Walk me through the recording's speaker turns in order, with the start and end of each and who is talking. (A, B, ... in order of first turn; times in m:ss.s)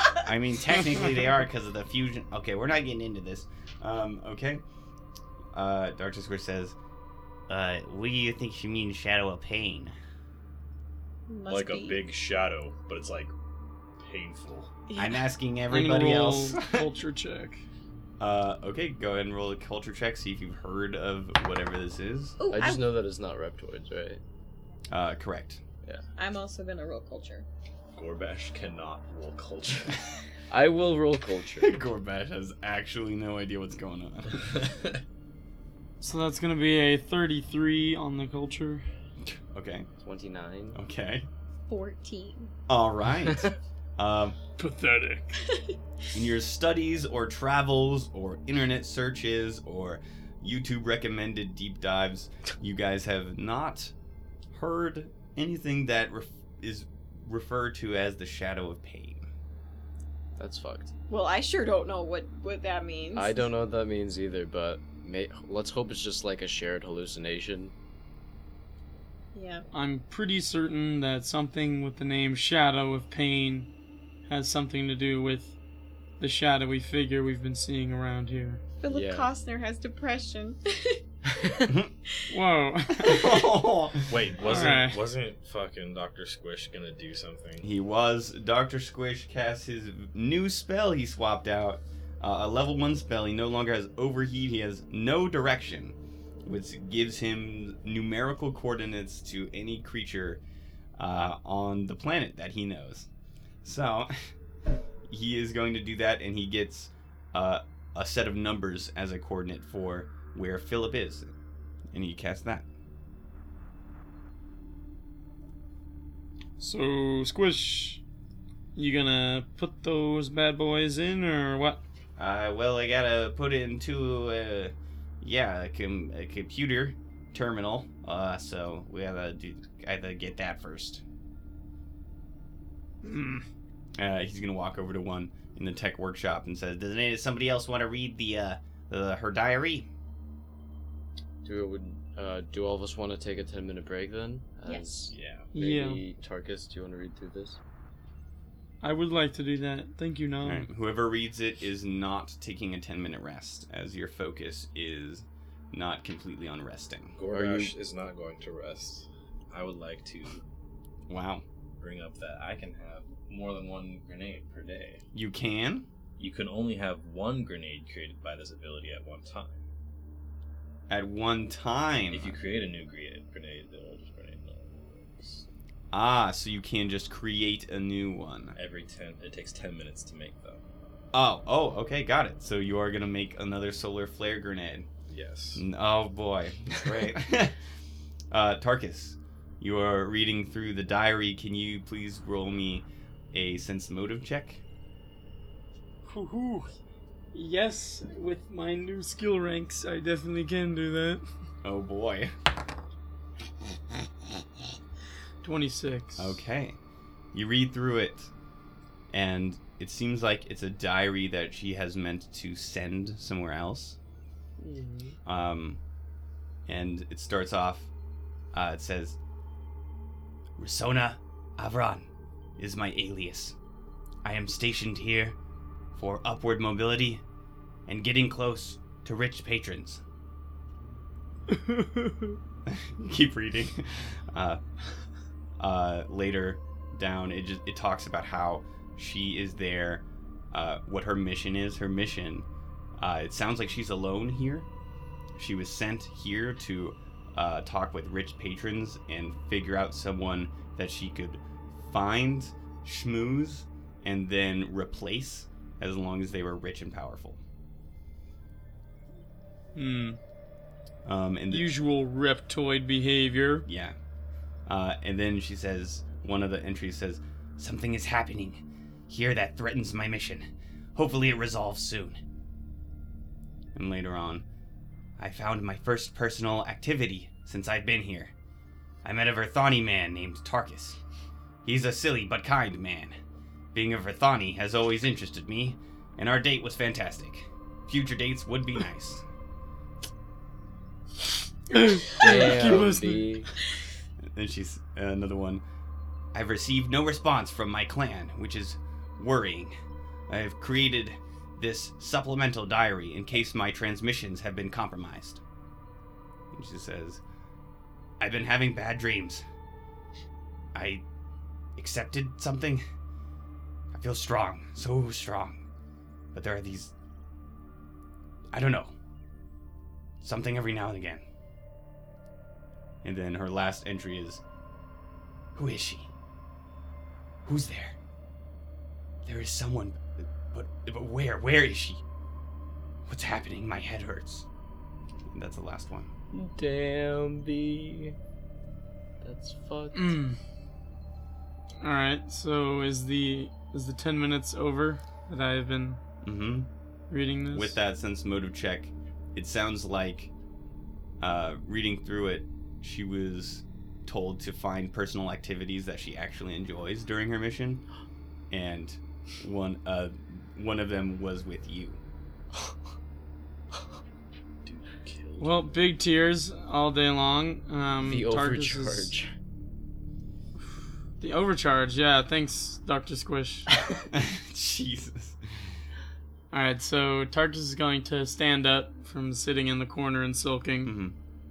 0:00.2-0:04.6 A
0:05.5-0:06.8 A
0:07.5-0:10.0 A
0:11.3-0:12.0 B
0:11.5-0:13.3 C
0:14.0-0:14.7 C
0:14.9-0:15.2 B
0:15.0-0:16.9 A
0:15.7-0:17.6 D
0:18.2-0:22.4 A
0:22.4-0:22.8 B
0:22.5-0:24.2 E
0:24.9-0:25.6 A
0:26.2-0:27.5 B
0:28.0-0:30.1 C
0:30.5-0:31.8 E
0:31.6-0:34.5 A
0:34.5-0:35.0 C
0:36.0-0:38.8 D
0:39.3-0:39.9 A
0:40.0-0:40.8 E
0:40.7-0:41.3 A
0:41.7-0:42.5 B
0:42.7-0:44.4 A
0:44.6-0:45.4 D
0:46.1-0:53.9 A
0:54.5-0:59.3 A
1:00.4-1:00.9 E
1:01.1-1:03.4 B
1:03.2-1:07.7 E
1:09.3-1:09.7 B
1:09.7-1:13.7 D
1:14.3-1:15.6 D
1:16.2-1:18.6 D
1:18.8-1:21.0 B
1:18.9-1:19.3 E
1:21.3-1:21.7 E
1:22.3-1:23.1 D
1:23.0-1:24.2 A
1:23.0-1:23.3 B
1:24.1-1:27.7 C
1:24.4-1:25.0 D
1:27.6-1:40.4 A
1:41.0-1:43.1 A
1:43.6-1:44.3 A
1:45.1-1:51.4 A
1:51.9-1:52.7 A
1:56.6-1:58.0 D
1:58.8-2:01.8 D
2:02.2-2:11.0 A
2:13.0-2:13.4 D
2:14.0-2:19.9 A
2:21.4-2:27.6 E
2:25.1-2:25.5 C
2:25.5-2:26.0 D
2:28.8-2:30.7 D
2:30.4-2:37.2 A
2:37.2-2:40.4 C
2:37.3-2:37.7 E
2:41.1-2:41.4 A
2:41.8-2:45.0 C
2:45.1-2:45.9 A
2:46.2-2:49.6 C
2:50.9-2:52.4 A
2:52.1-2:55.4 C
2:55.9-2:58.6 A
2:58.6-3:00.6 C
3:01.1-3:04.9 A
3:05.1-3:05.6 C
3:05.6-3:07.6 A
3:08.3-3:14.6 A
3:16.0-3:16.7 D
3:17.3-3:21.2 D
3:21.6-3:22.3 A
3:25.4-3:26.4 D
3:26.2-3:26.8 A
3:27.3-3:28.3 A
3:29.1-3:34.0 A
3:34.6-3:35.1 D
3:35.2-3:35.8 A
3:36.7-3:37.9 A
3:38.5-3:39.2 A
3:40.6-3:43.6 A
3:44.2-3:45.4 A
3:46.0-3:47.2 A
3:47.9-3:50.0 A
3:51.5-3:52.3 D
3:52.7-3:54.6 A
3:55.6-4:02.5 A
4:03.0-4:04.7 A
4:05.4-4:17.4 A
4:19.8-4:20.2 D
4:21.1-4:21.7 A
4:21.5-4:23.7 D
4:23.7-4:24.0 A
4:24.7-4:32.2 A
4:33.8-4:34.4 A
4:35.2-4:38.3 A
4:39.0-4:41.0 A
4:41.6-4:43.2 A
4:43.7-4:49.2 A
4:51.7-4:53.3 D
4:52.2-4:53.5 E
4:54.3-4:55.6 A
4:56.3-4:59.7 A
5:00.3-5:05.4 A
5:06.5-5:07.2 A
5:08.2-5:09.4 A
5:10.7-5:11.0 A
5:11.8-5:12.8 A
5:13.9-5:15.6 A
5:16.3-5:16.9 A
5:18.5-5:18.9 A
5:20.2-5:21.2 A
5:23.0-5:24.4 A
5:25.6-5:26.1 A
5:27.5-5:28.0 A
5:29.3-5:32.0 A
5:33.1-5:34.5 A
5:35.3-5:36.1 A
5:36.3-5:38.2 E
5:39.2-5:40.2 E
5:40.0-5:40.4 D
5:41.8-5:46.0 D
5:46.2-5:46.7 A
5:47.1-5:47.8 D
5:47.5-5:50.3 A
5:51.2-5:57.8 A
5:58.5-6:02.0 A
6:04.6-6:05.8 C
6:05.4-6:09.1 D
6:08.0-6:09.3 E
6:11.2-6:13.7 D
6:14.1-6:15.4 A
6:16.5-6:21.0 D
6:20.8-6:21.2 A